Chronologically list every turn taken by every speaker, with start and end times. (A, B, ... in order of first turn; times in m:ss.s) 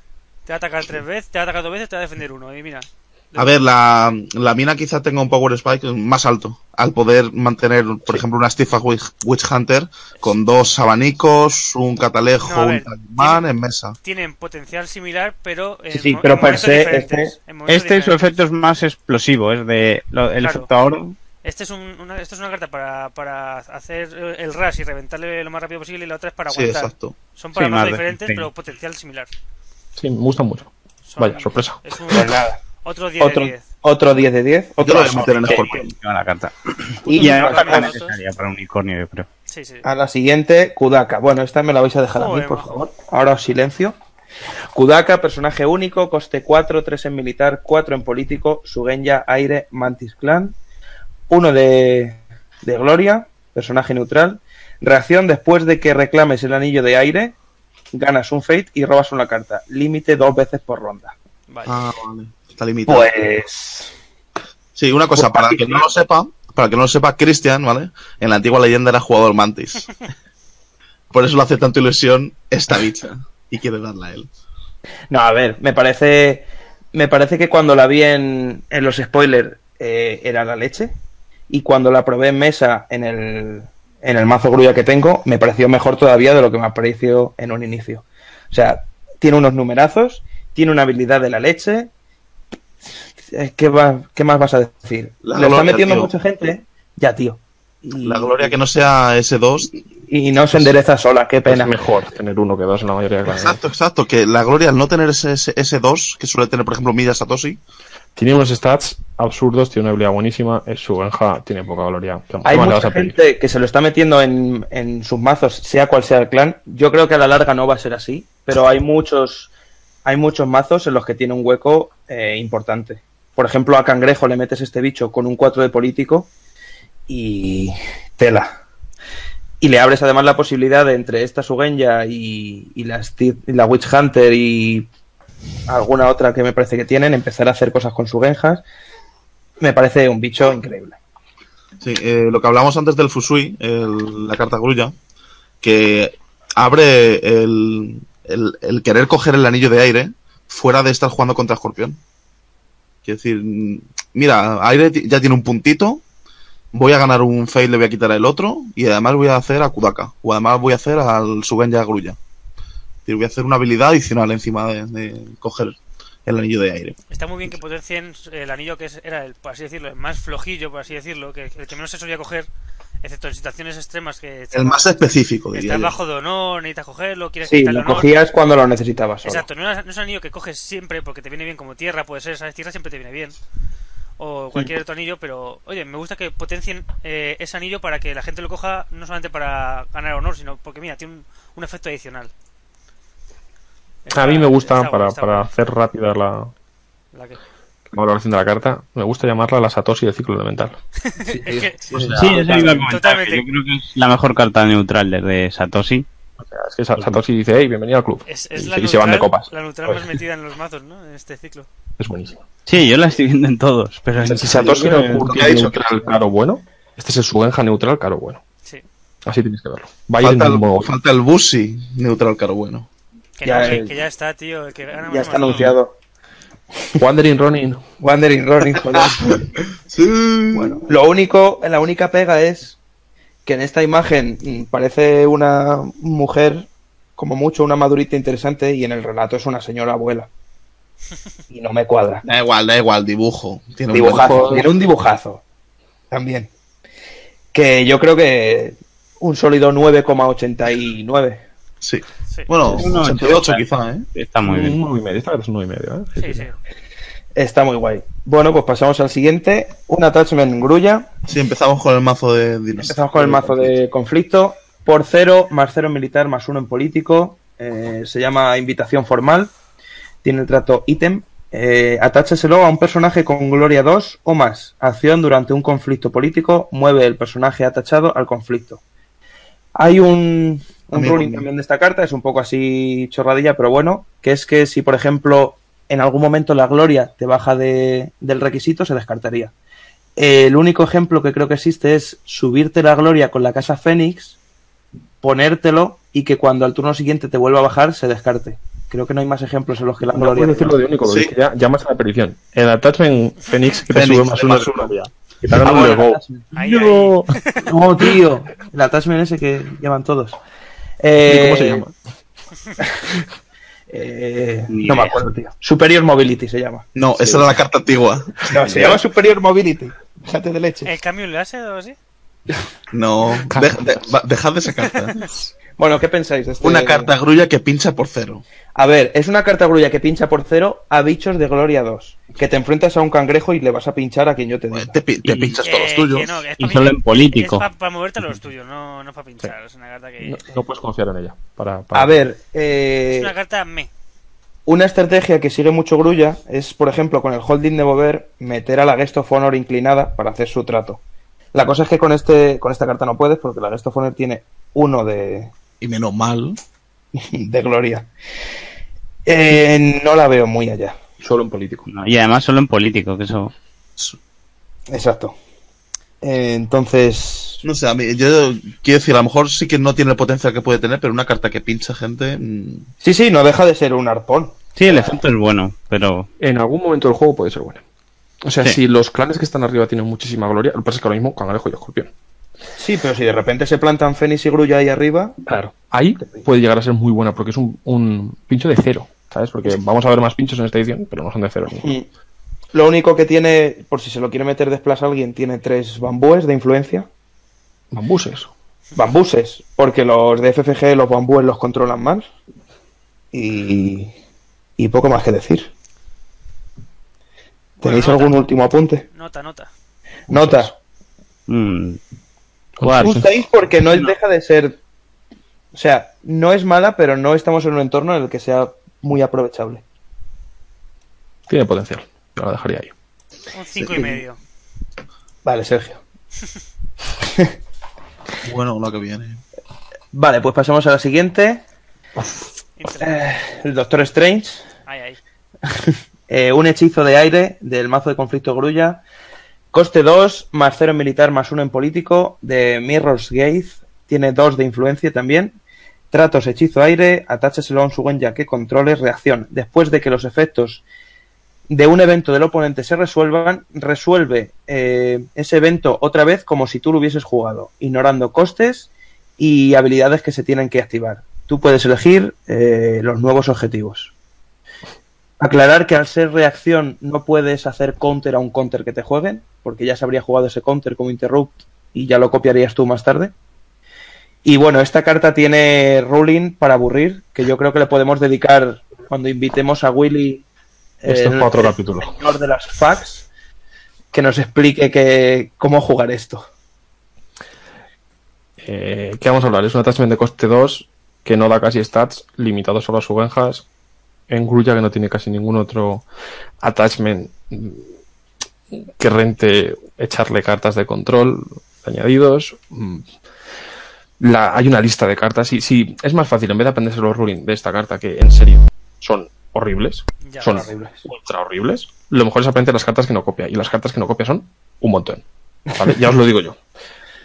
0:00.5-0:03.6 A
0:03.4-0:14.0 B
0:12.4-0:13.4 A
0:14.0-0:18.4 A
0:15.9-0:17.3 C
0:17.7-0:21.2 D
0:20.4-0:20.7 A
0:21.4-0:29.3 A
0:26.5-0:27.2 B
0:27.6-0:28.5 D
0:30.0-0:32.0 E
0:31.1-0:33.6 A
0:32.1-0:32.6 C
0:33.2-0:35.4 C
0:34.8-0:36.0 B
0:34.9-0:39.3 D
0:37.0-0:38.0 C
0:37.2-0:38.2 A
0:39.5-0:39.8 A
0:39.8-0:44.0 C
0:42.2-0:42.8 A
0:44.8-0:50.6 C
0:51.3-0:57.4 C
0:57.9-1:01.1 C
1:01.5-1:01.8 A
1:01.6-1:03.1 B
1:02.9-1:03.9 C
1:04.8-1:09.9 B
1:05.2-1:05.8 C
1:11.1-1:14.3 B
1:15.1-1:20.9 C
1:21.5-1:31.9 C
1:33.3-1:38.6 C
1:35.2-1:36.1 B
1:38.0-1:39.8 B
1:40.1-1:41.8 C
1:41.4-1:43.6 E
1:43.3-1:47.6 B
1:48.2-1:53.2 E
1:52.4-1:59.5 C
2:00.0-2:06.3 C
2:07.1-2:08.6 C
2:09.6-2:14.9 C
2:15.7-2:18.6 C
2:19.6-2:21.0 C
2:21.8-2:25.0 B
2:25.6-2:32.0 B
2:33.0-2:36.0 B
2:36.7-2:42.2 B
2:43.1-2:47.0 B
2:47.1-2:52.5 A
2:53.0-2:54.9 A
2:54.5-2:56.0 B
2:55.5-2:58.2 A
2:57.5-2:59.4 C
2:59.2-3:03.4 A
3:04.2-3:12.3 A
3:14.1-3:15.5 A
3:14.1-3:16.5 E
3:17.1-3:17.4 A
3:17.9-3:20.8 E
3:21.1-3:21.7 A
3:21.2-3:22.9 C
3:21.8-3:22.7 B
3:22.2-3:26.1 D
3:22.4-3:23.5 A
3:26.5-3:30.2 E
3:28.3-3:31.7 A
3:32.0-3:32.4 E
3:32.7-3:35.0 D
3:34.2-3:38.4 E
3:34.4-3:35.6 C
3:35.3-3:35.8 B
3:39.3-3:40.9 E
3:40.2-3:42.9 B
3:43.4-3:45.8 A
3:43.4-3:44.0 C
3:45.1-3:45.9 C
3:47.0-3:47.8 E
3:48.0-3:49.5 C
3:49.2-3:50.8 B
3:50.5-3:52.8 C
3:53.5-4:00.3 C
4:01.5-4:02.2 C
4:02.2-4:04.6 B
4:03.9-4:05.4 C
4:04.0-4:04.7 E
4:06.1-4:06.5 C
4:07.5-4:11.4 C
4:11.8-4:14.1 B
4:12.7-4:13.6 D
4:14.1-4:14.8 D
4:14.4-4:16.5 E
4:16.2-4:16.5 A
4:17.4-4:21.1 C
4:21.3-4:23.8 B
4:22.8-4:29.5 C
4:30.2-4:38.8 C
4:39.8-4:49.5 C
4:40.9-4:41.5 B
4:50.2-4:54.4 C
4:55.2-5:00.8 C
5:00.1-5:07.4 E
5:01.1-5:01.3 B
5:03.9-5:04.9 B
5:05.5-5:06.5 C
5:06.5-5:07.7 A
5:07.6-5:10.4 C
5:11.0-5:11.8 C
5:11.2-5:11.9 E
5:13.9-5:17.5 C
5:14.7-5:15.2 D
5:17.0-5:19.0 B
5:18.4-5:20.9 C
5:18.6-5:19.0 E
5:20.8-5:22.0 A
5:22.9-5:25.3 B
5:23.5-5:24.0 E
5:25.8-5:27.1 C
5:26.6-5:28.4 B
5:28.8-5:35.0 C
5:34.7-5:36.5 B
5:35.2-5:35.6 D
5:35.6-5:40.4 A
5:36.6-5:37.7 D
5:40.2-5:42.3 E
5:41.9-5:43.3 C
5:43.1-5:43.9 A
5:44.7-5:51.0 C
5:51.5-5:55.5 C
5:55.8-5:56.6 B
5:57.2-5:58.1 C
5:59.3-6:01.0 C
6:01.2-6:01.9 E
6:01.9-6:03.5 D
6:04.9-6:05.4 C
6:06.2-6:07.6 C
6:07.6-6:12.9 B
6:13.0-6:15.2 C
6:14.8-6:16.3 D
6:16.4-6:17.8 E
6:18.4-6:22.1 E
6:22.8-6:25.4 C
6:25.5-6:31.9 E
6:31.8-6:32.0 C
6:32.7-6:37.1 C
6:37.9-6:38.5 E
6:39.0-6:42.3 C
6:43.3-6:44.1 C
6:44.8-6:45.7 C
6:47.8-6:48.4 A
6:47.8-6:49.1 C
6:49.1-6:49.7 A
6:50.3-6:50.7 C
6:50.4-6:50.7 E
6:51.5-6:52.0 D
6:52.8-6:53.4 E
6:52.8-6:53.4 D
6:53.0-6:54.8 C
6:53.9-6:54.2 D
6:55.7-6:59.8 C
7:01.5-7:02.9 E
7:03.5-7:04.4 A
7:03.8-7:04.0 B
7:03.9-7:04.2 C
7:05.4-7:06.0 C
7:08.4-7:09.4 B
7:10.1-7:11.6 C
7:12.8-7:13.3 A
7:13.0-7:14.6 C
7:14.9-7:15.2 A
7:15.7-7:19.0 C
7:19.7-7:25.6 C
7:26.1-7:30.8 C
7:31.7-7:44.1 C
7:45.4-7:53.3 C
7:54.4-8:00.4 C
8:01.0-8:03.3 C
8:01.1-8:02.1 E
8:04.1-8:06.5 C
8:08.6-8:13.7 E
8:14.3-8:16.0 E
8:16.6-8:17.8 E
8:18.7-8:23.1 E
8:24.2-8:36.6 E
8:30.2-8:30.6 A
8:30.5-8:31.0 C